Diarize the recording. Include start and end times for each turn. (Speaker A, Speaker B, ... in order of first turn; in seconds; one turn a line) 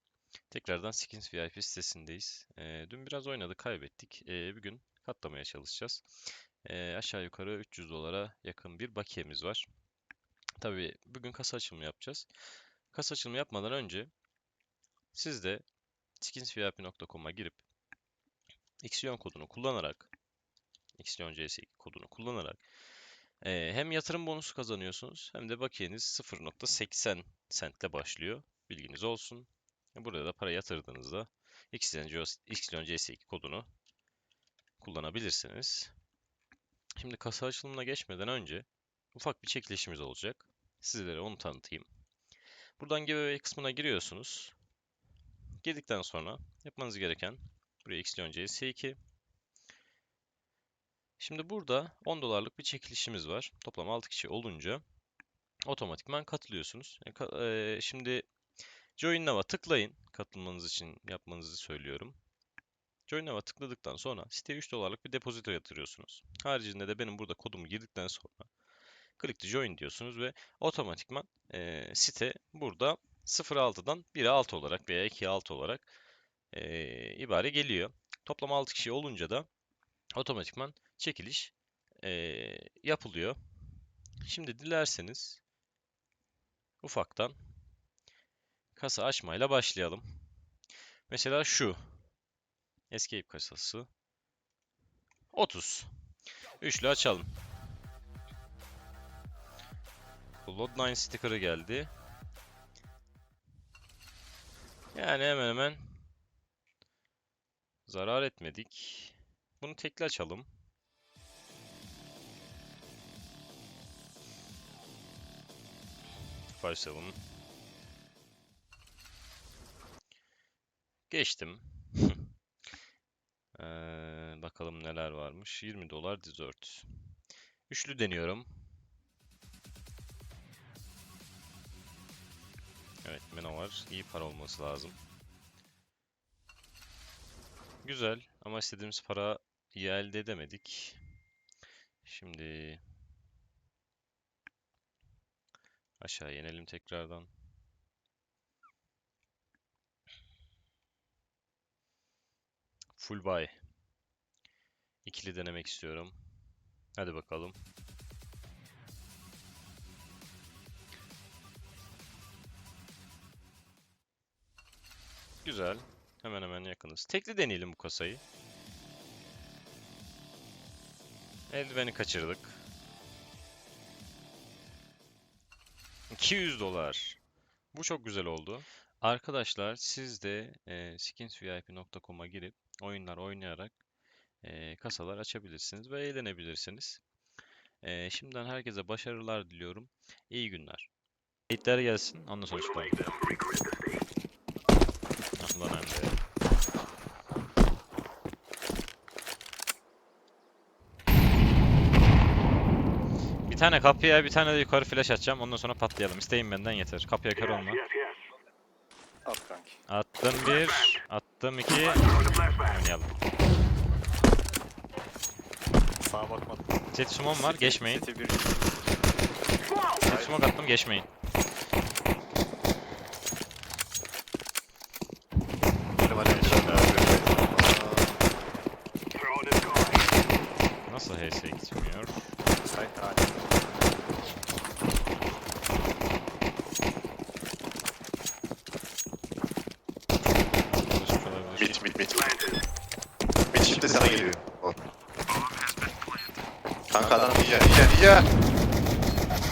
Speaker A: 0.5-6.0
Speaker A: 6.6-9.7
Speaker A: 10.6-12.3
Speaker A: 12.9-14.1
Speaker A: 15.1-15.7
Speaker A: 16.2-17.6
Speaker A: 18.8-20.1
Speaker A: 21.0-22.6
Speaker A: 23.4-33.7
Speaker A: 34.8-35.9
Speaker A: 37.0-41.9
Speaker A: 42.8-44.5
Speaker A: 45.6-49.0
Speaker A: 51.2-54.8
Speaker A: 55.6-58.3
Speaker A: 59.0-62.2
Speaker A: 63.1-68.5
Speaker A: 69.2-75.9
Speaker A: 76.5-79.5
Speaker A: 80.1-83.4
Speaker A: 84.2-85.4
Speaker A: 86.8-87.4
Speaker A: 88.8-90.2
Speaker A: 91.1-92.0
Speaker A: 92.9-93.9
Speaker A: 95.3-95.9
Speaker A: 96.6-97.3
Speaker A: 100.5-101.9
Speaker A: 104.9-106.0
Speaker A: 107.9-110.5
Speaker A: 116.6-117.2
Speaker A: 121.1-122.3
Speaker A: 123.6-127.1
Speaker A: 127.7-128.7
Speaker A: 133.1-135.0
Speaker A: 137.8-141.0
Speaker A: 142.0-142.8
Speaker A: 146.0-147.3
Speaker A: 153.0-153.6
Speaker A: 155.1-156.2
Speaker A: 157.0-157.6
Speaker A: 165.4-168.2
Speaker A: 171.5-172.6
Speaker A: 176.1-177.2
Speaker A: 177.7-183.7
Speaker A: 184.4-187.0
Speaker A: 187.8-190.9
Speaker A: 191.5-193.1
Speaker A: 195.4-196.1
Speaker A: 203.5-207.8
Speaker B: 209.3-209.8
Speaker A: 209.9-213.1
Speaker B: 216.0-216.7
Speaker A: 216.9-218.1
Speaker B: 217.3-218.7
Speaker A: 220.0-221.1
Speaker C: 226.0-228.2
Speaker A: 226.2-227.3
Speaker A: 230.9-232.3
Speaker B: 232.6-233.3
Speaker A: 240.7-241.7
Speaker C: 241.6-242.3
Speaker C: 243.5-244.8
Speaker C: 246.9-248.3